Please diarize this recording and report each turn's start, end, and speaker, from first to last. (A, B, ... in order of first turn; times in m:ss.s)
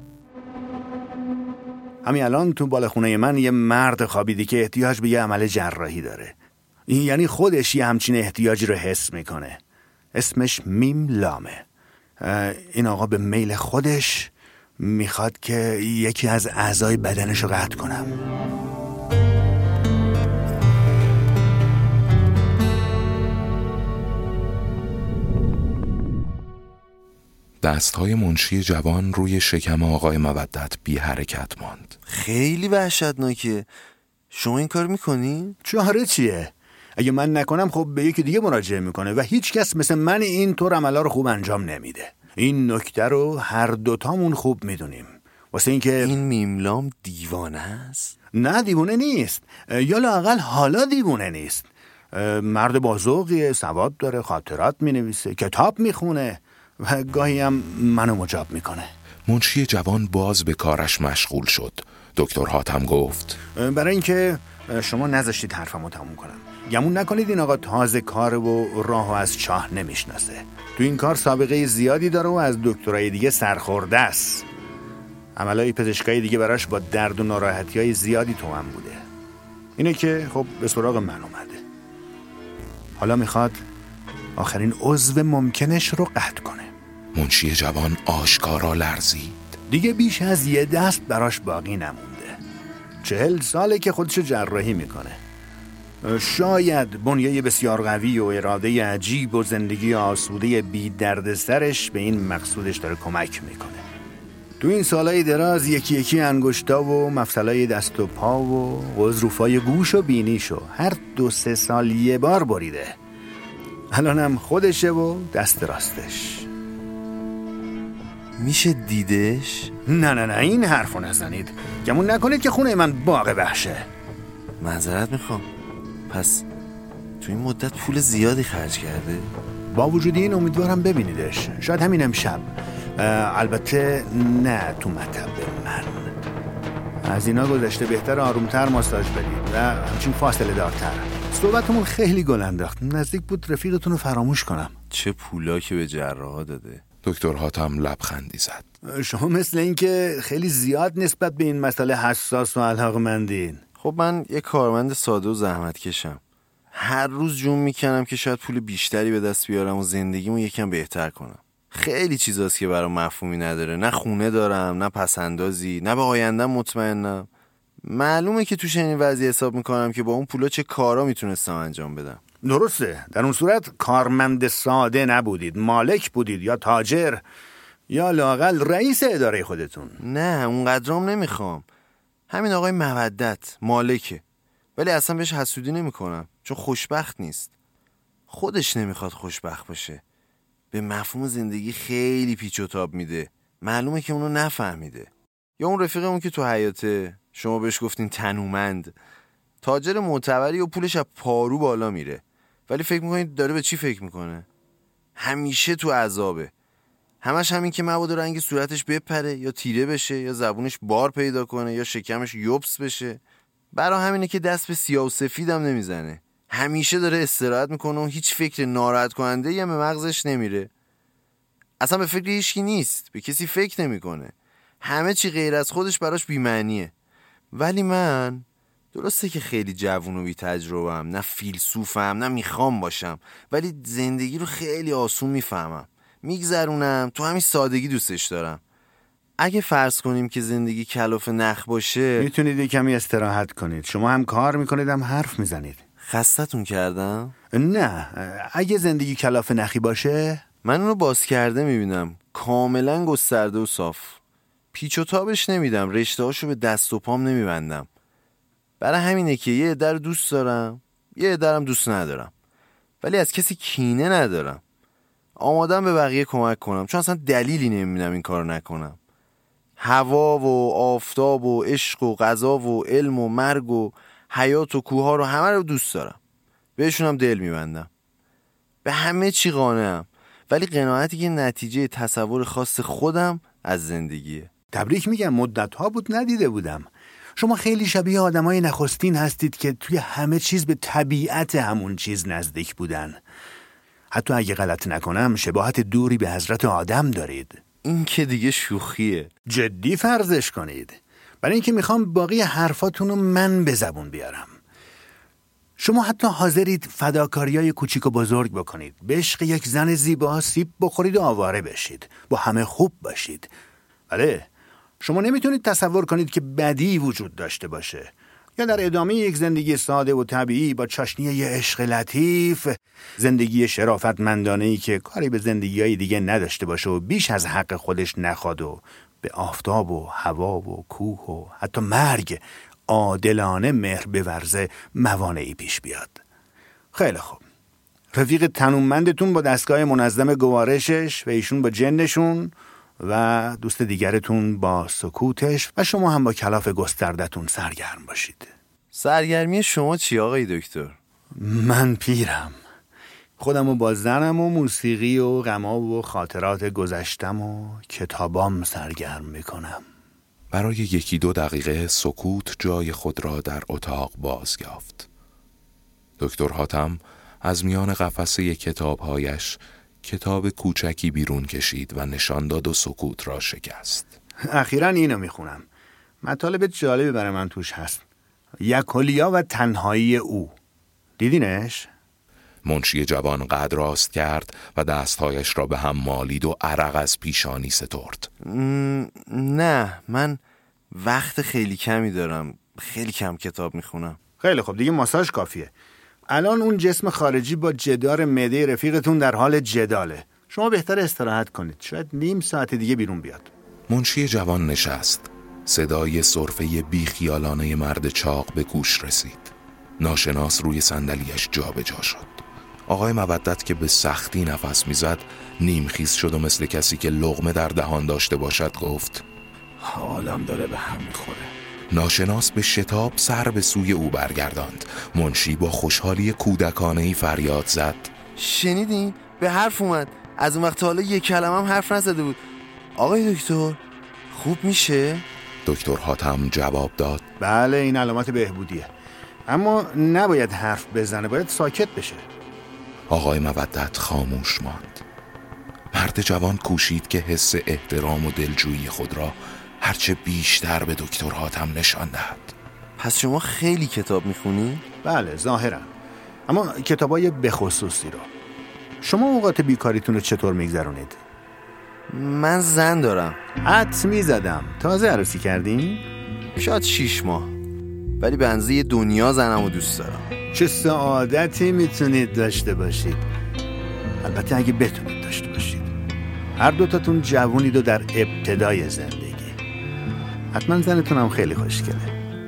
0:02.0-0:06.4 A
0:06.9-0:09.6 A
0:10.1-0:11.6 A
0:12.2-0:18.1 A
0:27.6-0:32.0 B
0:32.1-0:33.7 C
0:34.3-0:35.6 C
0:35.6-0:46.2 A
0:46.0-0:48.2 C
0:48.3-0:58.9 A
0:59.2-1:03.4 B
1:03.5-1:14.5 A
1:15.4-1:19.0 A
1:19.8-1:21.6 A
1:23.0-1:23.6 A
1:24.4-1:26.7 A
1:27.1-1:29.5 B
1:29.7-1:32.4 A
1:33.0-1:35.2 A
1:36.0-1:43.8 A
1:44.6-1:53.0 A
1:53.9-1:56.5 A
1:58.4-1:59.7 C
1:59.9-2:03.9 A
2:04.6-2:05.5 C
2:06.1-2:06.4 C
2:07.2-2:09.3 C
2:09.7-2:16.1 A
2:17.0-2:24.8 A
2:24.9-2:26.8 C
2:27.0-2:28.6 B
2:28.9-2:33.6 A
2:33.8-2:36.2 C
2:36.7-2:47.3 C
2:47.8-2:52.2 C
2:52.4-2:57.2 A
2:57.9-3:00.0 A
3:00.0-3:01.7 C
3:02.3-3:04.2 C
3:04.8-3:07.5 C
3:08.3-3:10.0 C
3:10.7-3:19.0 C
3:19.6-3:24.5 C
3:25.2-3:26.5 C
3:27.2-3:40.7 C
3:41.8-3:46.9 C
3:47.5-3:58.6 C
3:59.4-4:02.3 C
4:02.2-4:05.8 A
4:06.0-4:07.3 C
4:07.5-4:10.4 A
4:10.6-4:14.2 C
4:14.7-4:17.9 C
4:18.8-4:22.3 C
4:23.0-4:24.6 C
4:25.4-4:29.0 C
4:29.8-4:36.2 C
4:36.8-4:37.9 C
4:38.8-4:44.5 C
4:44.7-4:53.2 A
4:54.1-4:57.6 A
4:57.8-4:59.3 C
4:59.5-5:04.6 A
5:05.8-5:13.5 A
5:14.1-5:36.2 A
5:36.9-5:37.4 A
5:38.1-5:48.5 A
5:48.9-5:51.0 C
5:51.4-5:52.6 A
5:53.4-5:59.8 A
6:00.5-6:05.1 B
6:06.2-6:14.1 B
6:14.4-6:15.6 A
6:16.2-6:18.0 A
6:18.6-6:20.5 A
6:21.2-6:21.9 A
6:22.6-6:28.3 B
6:28.4-6:30.4 C
6:30.9-6:34.2 C
6:34.4-6:35.7 A
6:36.3-6:43.5 A
6:43.9-6:59.2 B
6:59.8-7:01.5 C
7:01.9-7:08.1 B
7:08.4-7:12.4 C
7:13.0-7:13.8 C
7:14.3-7:15.2 C
7:15.6-7:17.2 B
7:17.4-7:18.9 A
7:19.5-7:22.2 A
7:23.1-7:25.0 B
7:25.9-7:32.5 B
7:33.0-7:34.8 C
7:35.0-7:35.9 A
7:36.5-7:38.3 A
7:39.0-7:41.2 A
7:42.1-7:43.4 C
7:43.6-7:46.1 A
7:46.6-7:47.6 C
7:48.2-7:50.2 C
7:50.5-7:53.2 A
7:54.2-7:55.9 A
7:56.6-7:59.6 A
8:00.5-8:02.1 A